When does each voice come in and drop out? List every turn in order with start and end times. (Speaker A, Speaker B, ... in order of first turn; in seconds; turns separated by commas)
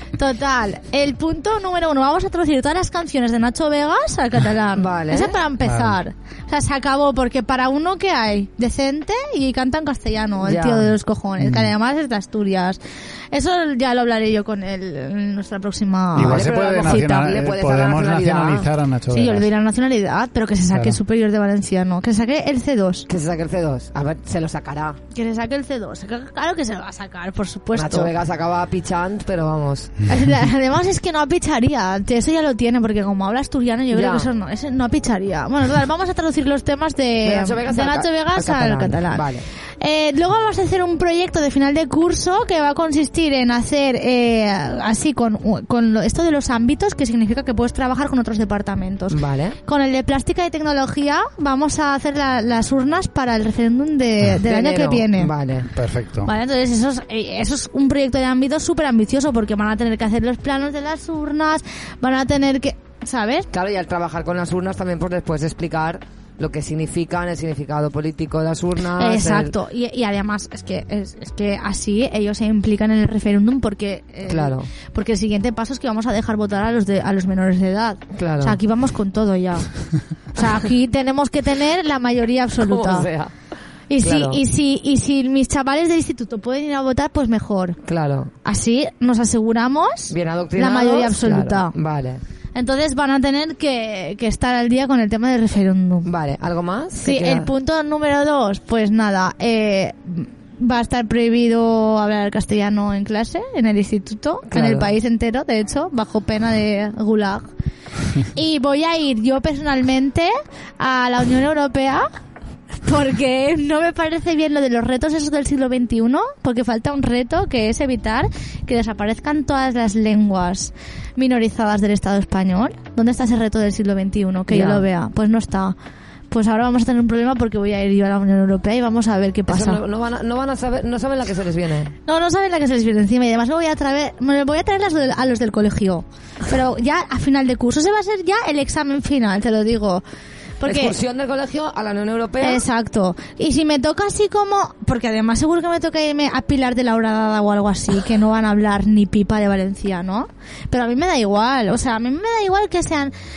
Speaker A: 0.1-12.8, Speaker B: 4.8-5.4, Speaker C: 5.6-6.0, Speaker B: 10.4-10.9, Speaker C: 11.4-11.7, Speaker A: 13.3-17.2, Speaker C: 16.1-19.5, Speaker B: 16.2-18.7, Speaker A: 19.1-23.1, Speaker C: 20.7-21.0, Speaker B: 23.1-25.0, Speaker A: 25.1-28.1, Speaker B: 27.8-29.9, Speaker A: 30.1-55.3, Speaker B: 33.9-34.3, Speaker B: 37.2-39.5, Speaker B: 49.1-49.6, Speaker B: 54.4-55.7, Speaker C: 55.7-56.3, Speaker A: 56.2-63.5, Speaker B: 63.5-69.5, Speaker A: 68.9-79.7, Speaker B: 74.3-74.7, Speaker B: 78.2-78.6, Speaker A: 80.3-83.1, Speaker B: 82.6-83.3, Speaker A: 83.9-87.8, Speaker B: 84.0-84.4, Speaker B: 87.9-88.3, Speaker A: 88.5-91.7, Speaker B: 90.1-92.2, Speaker A: 92.6-96.1, Speaker B: 96.0-97.5, Speaker A: 97.0-107.5, Speaker B: 104.5-105.0, Speaker A: 108.3-112.1, Speaker A: 112.8-125.8, Speaker B: 124.5-124.8, Speaker A: 126.3-129.8, Speaker B: 129.5-131.9, Speaker A: 132.1-140.0, Speaker A: 140.6-141.0, Speaker B: 140.6-142.7, Speaker A: 142.4-153.1